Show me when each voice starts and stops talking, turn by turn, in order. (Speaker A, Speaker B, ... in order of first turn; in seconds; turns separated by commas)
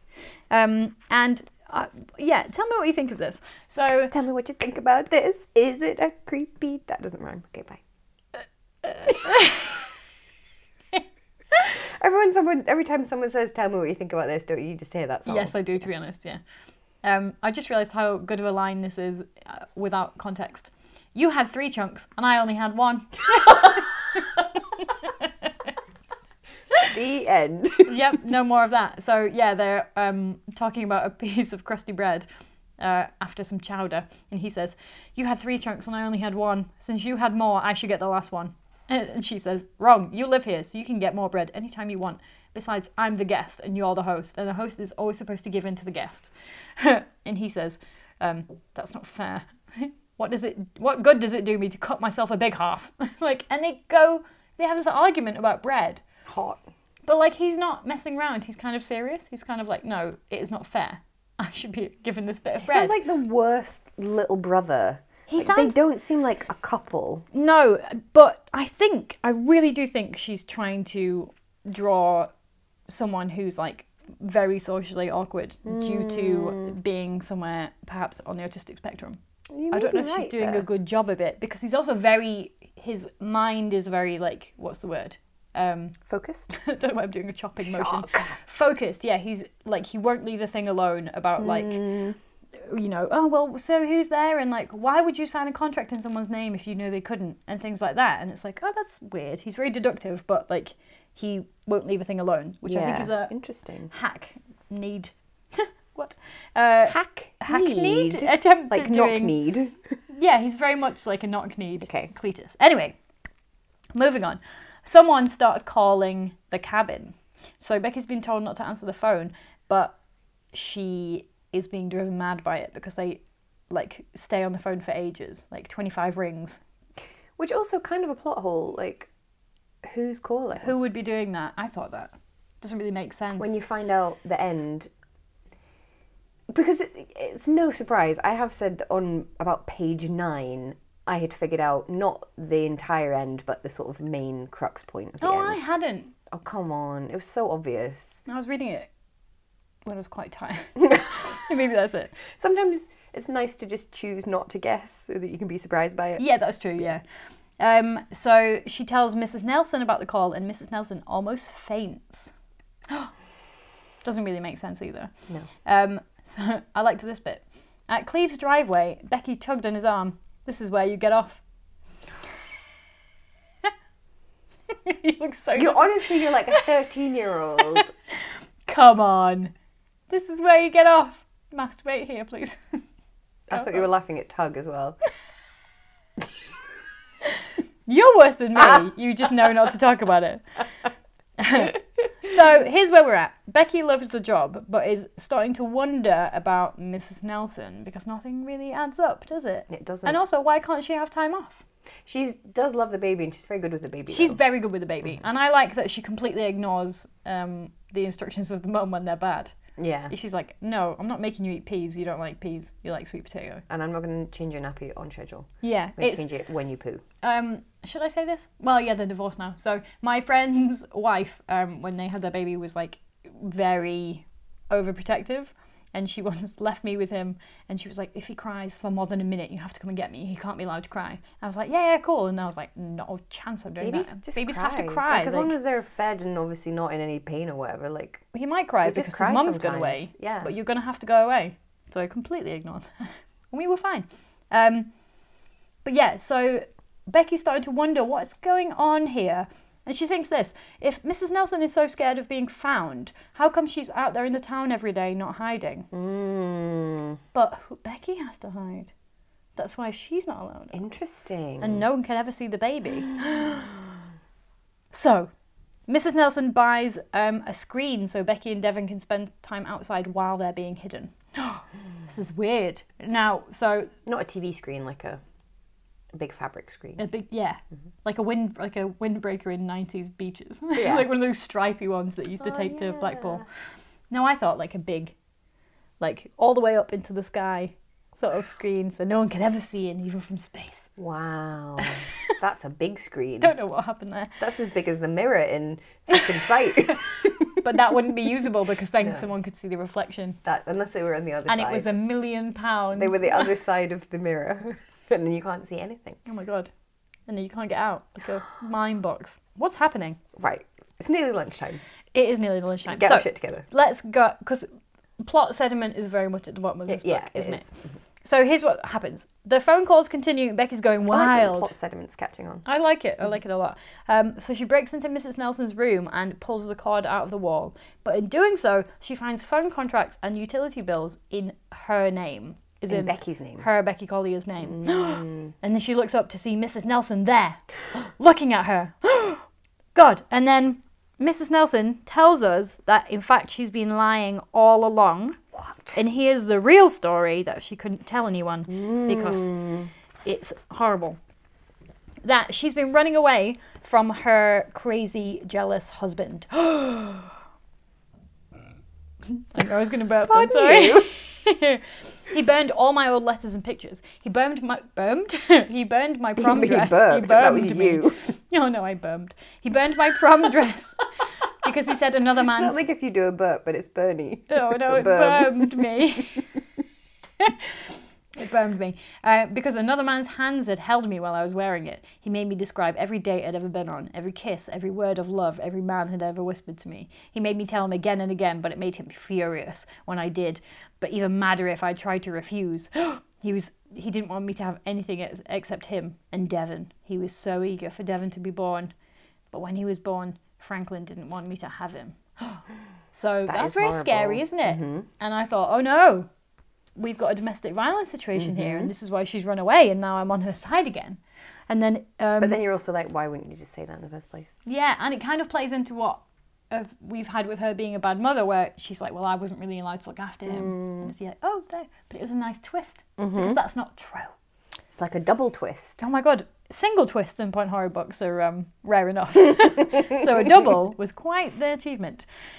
Speaker A: 0.5-4.1, Speaker B: 4.1-7.8, Speaker A: 8.8-9.8, Speaker B: 11.8-15.6, Speaker A: 15.2-16.4, Speaker A: 17.0-25.7, Speaker B: 26.9-28.0, Speaker A: 27.9-32.3, Speaker A: 32.8-56.0, Speaker B: 56.2-56.6, Speaker A: 57.1-63.0, Speaker B: 62.6-67.3, Speaker A: 65.3-65.8, Speaker A: 67.3-72.3, Speaker A: 72.9-79.2, Speaker B: 75.7-76.8, Speaker B: 79.5-80.7, Speaker A: 79.7-86.0, Speaker B: 86.1-86.5, Speaker A: 86.5-91.8, Speaker B: 87.6-88.4, Speaker B: 91.4-92.2, Speaker A: 92.6-103.3, Speaker B: 102.6-103.9, Speaker A: 103.9-109.4, Speaker B: 106.9-109.9, Speaker A: 110.1-112.9, Speaker B: 111.8-112.1, Speaker A: 113.9-120.0, Speaker A: 120.5-126.6, Speaker B: 127.4-129.1, Speaker B: 129.8-130.7, Speaker A: 130.6-133.5, Speaker B: 133.4-134.9, Speaker B: 136.5-145.6, Speaker A: 145.2-146.1, Speaker B: 146.3-148.2, Speaker A: 148.2-148.9, Speaker A: 149.9-152.2, Speaker B: 152.3-156.2, Speaker A: 156.2-157.0, Speaker A: 157.6-162.3, Speaker A: 164.0-165.1, Speaker A: 165.6-171.4, Speaker A: 174.7-176.7, Speaker B: 175.5-177.9, Speaker A: 177.6-177.9, Speaker A: 178.7-179.5, Speaker A: 180.1-182.6, Speaker B: 183.5-185.0, Speaker A: 183.5-183.8, Speaker A: 187.9-190.4, Speaker A: 191.4-201.6, Speaker B: 199.7-200.2, Speaker B: 202.1-204.4, Speaker A: 204.1-209.5, Speaker B: 209.8-210.1, Speaker A: 210.1-213.6, Speaker B: 213.7-217.0, Speaker A: 215.6-216.3, Speaker A: 217.2-235.5, Speaker B: 233.8-238.2, Speaker A: 238.3-244.9, Speaker B: 238.8-240.5, Speaker A: 245.8-255.9, Speaker B: 255.9-257.2, Speaker A: 257.3-258.9, Speaker A: 259.6-260.8, Speaker B: 260.7-261.8, Speaker A: 261.6-263.9, Speaker A: 264.9-265.3, Speaker A: 265.9-273.9, Speaker B: 274.1-275.2, Speaker B: 276.1-277.0, Speaker A: 277.0-283.4, Speaker B: 280.8-281.1, Speaker B: 282.4-283.4, Speaker A: 284.1-285.1, Speaker A: 286.0-290.9, Speaker B: 291.0-293.5, Speaker A: 291.8-292.3, Speaker A: 293.4-294.4, Speaker B: 294.4-297.5, Speaker A: 296.9-300.4, Speaker B: 299.0-299.3, Speaker B: 300.4-301.9, Speaker A: 301.5-303.5, Speaker B: 302.9-306.2, Speaker A: 306.2-306.7, Speaker A: 307.3-310.2, Speaker B: 310.4-311.8, Speaker A: 312.1-314.6, Speaker B: 312.9-313.6, Speaker A: 315.2-317.6, Speaker B: 316.9-317.8, Speaker A: 318.2-321.7, Speaker B: 321.1-322.6, Speaker A: 322.6-345.4, Speaker B: 332.9-333.6, Speaker B: 334.6-335.5, Speaker B: 345.5-346.0, Speaker A: 345.9-349.6, Speaker B: 348.7-349.9, Speaker A: 350.2-351.2, Speaker A: 352.2-357.4, Speaker A: 359.3-371.0, Speaker B: 360.2-361.1, Speaker B: 366.4-368.2, Speaker A: 371.6-372.8, Speaker B: 372.4-376.0, Speaker A: 374.5-376.5, Speaker A: 377.4-398.9, Speaker A: 399.5-402.6, Speaker A: 403.1-406.3, Speaker B: 403.5-405.1, Speaker A: 407.0-412.6, Speaker B: 408.4-408.9, Speaker B: 412.4-414.6, Speaker A: 414.6-424.3, Speaker B: 420.5-421.1, Speaker B: 423.2-423.6, Speaker B: 424.9-426.0, Speaker A: 426.0-432.2